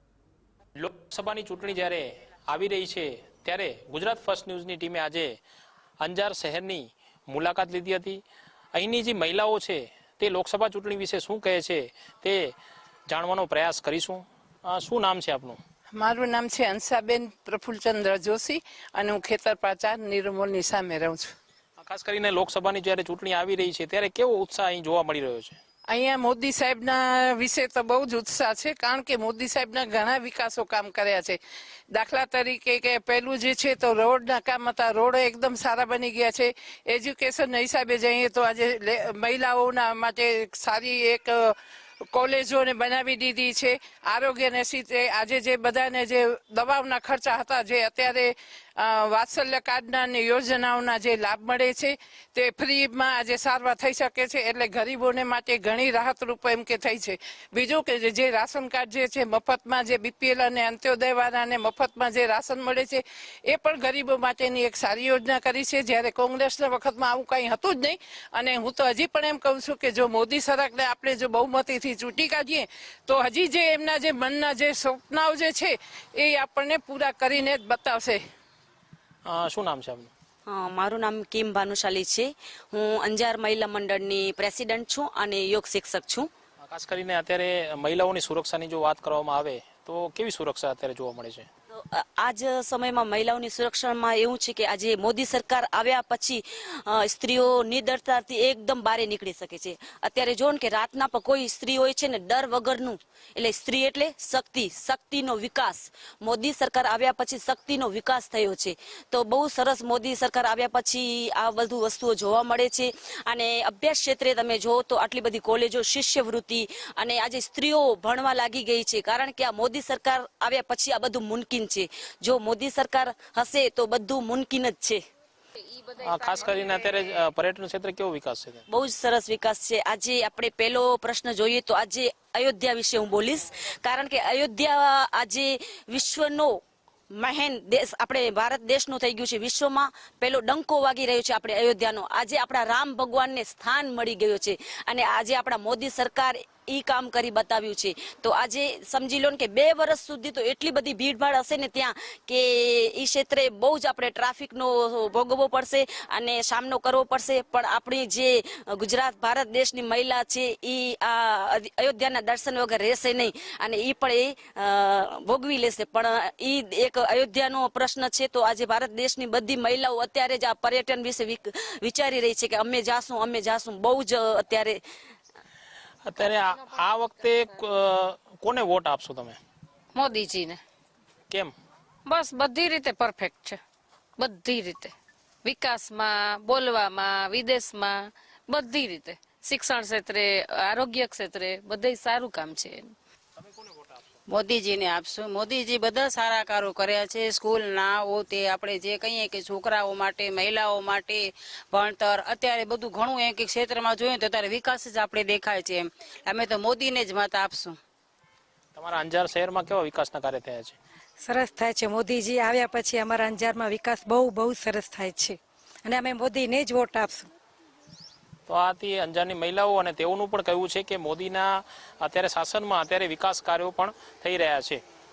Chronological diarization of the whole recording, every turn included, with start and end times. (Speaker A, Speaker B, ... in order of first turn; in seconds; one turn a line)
Speaker A: 0.8-5.4
Speaker A: 6.0-8.2
Speaker A: 8.7-12.5
Speaker A: 13.1-15.6
Speaker B: 15.9-21.3
Speaker A: 21.8-25.6
Speaker B: 25.9-31.4
Speaker B: 31.9-41.5
Speaker B: 42.1-78.2
Speaker A: 79.2-80.1
Speaker C: 80.5-86.3
Speaker A: 86.6-91.5
Speaker C: 91.8-125.0
Speaker A: 126.0-128.6
Speaker C: 128.7-136.6
Speaker C: 137.1-174.8
Speaker A: 176.1-179.4
Speaker D: 180.1-180.6
Speaker D: 182.1-183.6
Speaker D: 184.2-184.9
Speaker D: 185.4-192.9
Speaker A: 193.4-194.0
Speaker E: 194.5-201.2
Speaker E: 201.7-207.8
Speaker A: 208.8-210.8
Speaker F: 211.2-217.3
Speaker A: 218.5-224.8